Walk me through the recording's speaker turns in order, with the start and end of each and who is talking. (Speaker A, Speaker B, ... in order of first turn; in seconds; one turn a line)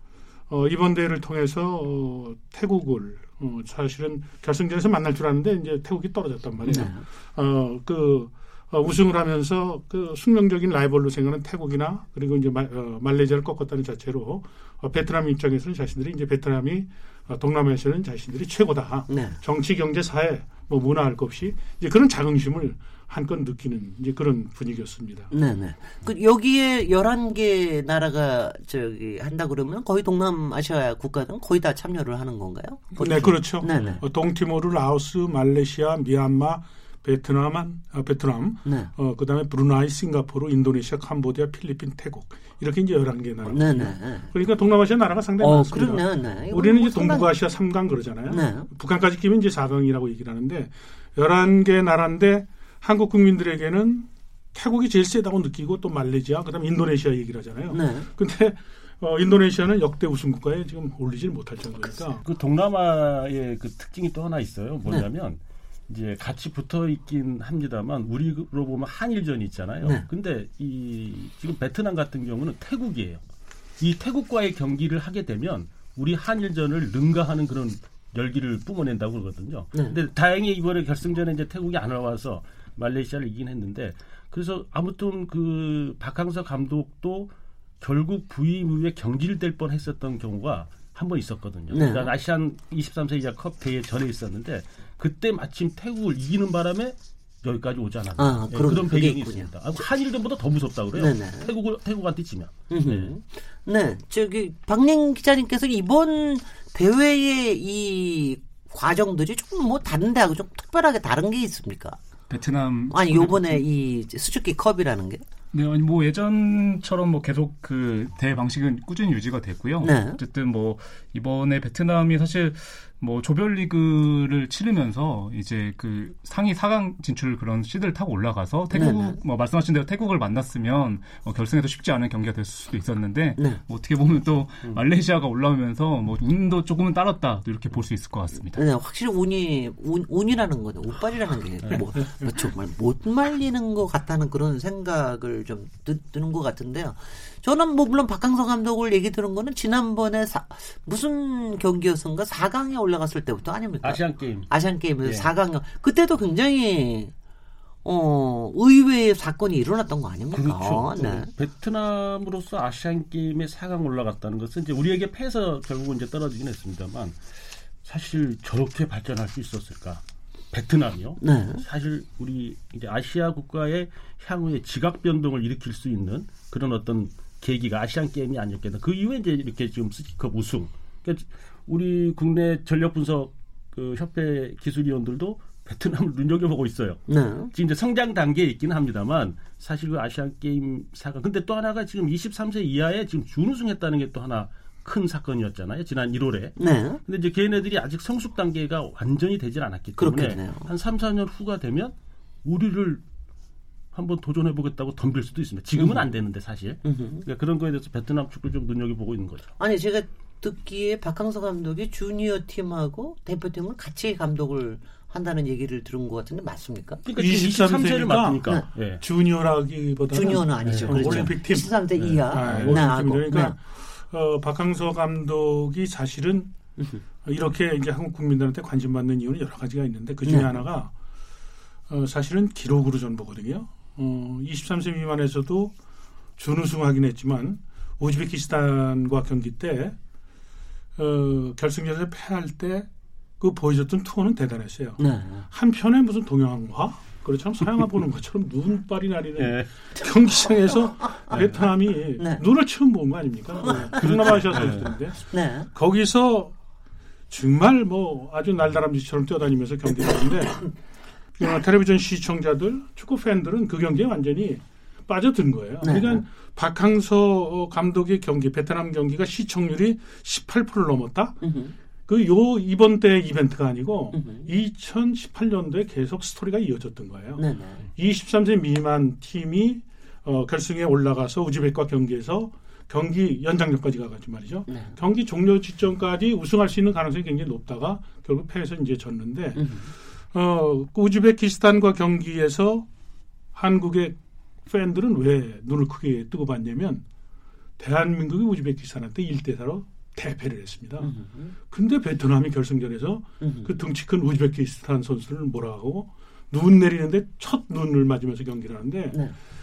Speaker A: 0.5-25.3
Speaker B: 6.7-7.0
Speaker B: 19.1-19.4
Speaker B: 25.3-34.0
Speaker A: 33.0-62.2
Speaker C: 33.7-34.0
Speaker B: 38.6-38.9
Speaker B: 43.5-44.3
Speaker B: 45.4-47.3
Speaker B: 48.3-48.7
Speaker B: 57.7-58.1
Speaker C: 62.2-73.2
Speaker C: 73.8-103.1
Speaker B: 91.7-92.1
Speaker B: 98.2-99.8
Speaker B: 100.9-101.5
Speaker B: 102.7-112.0
Speaker D: 112.3-113.6
Speaker B: 112.9-115.2
Speaker D: 115.5-138.6
Speaker B: 119.8-120.2
Speaker B: 128.7-129.2
Speaker B: 138.6-157.1
Speaker C: 153.8-154.5
Speaker C: 155.0-155.3
Speaker B: 157.8-161.3
Speaker C: 160.3-187.0
Speaker B: 171.2-171.6
Speaker B: 187.1-187.5
Speaker C: 187.5-203.0
Speaker B: 196.6-197.0
Speaker B: 200.0-200.7
Speaker C: 203.9-209.5
Speaker B: 205.8-206.1
Speaker B: 206.8-207.2
Speaker B: 209.6-217.0
Speaker C: 217.0-219.0
Speaker A: 217.2-218.5
Speaker A: 219.0-226.5
Speaker B: 220.1-223.5
Speaker C: 220.6-221.3
Speaker C: 221.9-222.9
Speaker B: 226.8-227.0
Speaker A: 227.2-230.9
Speaker B: 230.2-230.6
Speaker A: 231.9-235.7
Speaker A: 236.4-239.9
Speaker A: 241.0-242.9
Speaker A: 243.4-256.5
Speaker B: 245.0-245.5
Speaker C: 249.4-249.7
Speaker B: 251.0-251.5
Speaker C: 251.3-251.6
Speaker B: 252.2-252.4
Speaker B: 253.6-255.7
Speaker C: 253.7-254.9
Speaker A: 257.3-260.7
Speaker B: 260.0-260.7
Speaker A: 261.4-271.4
Speaker B: 265.8-266.2
Speaker B: 271.4-271.7
Speaker A: 272.1-289.8
Speaker B: 274.1-274.5
Speaker B: 277.4-277.9
Speaker B: 284.7-284.9
Speaker B: 289.5-289.9
Speaker A: 290.3-292.9
Speaker A: 293.5-297.0
Speaker A: 297.8-301.1
Speaker B: 301.0-301.5
Speaker A: 301.7-309.2
Speaker B: 303.4-303.7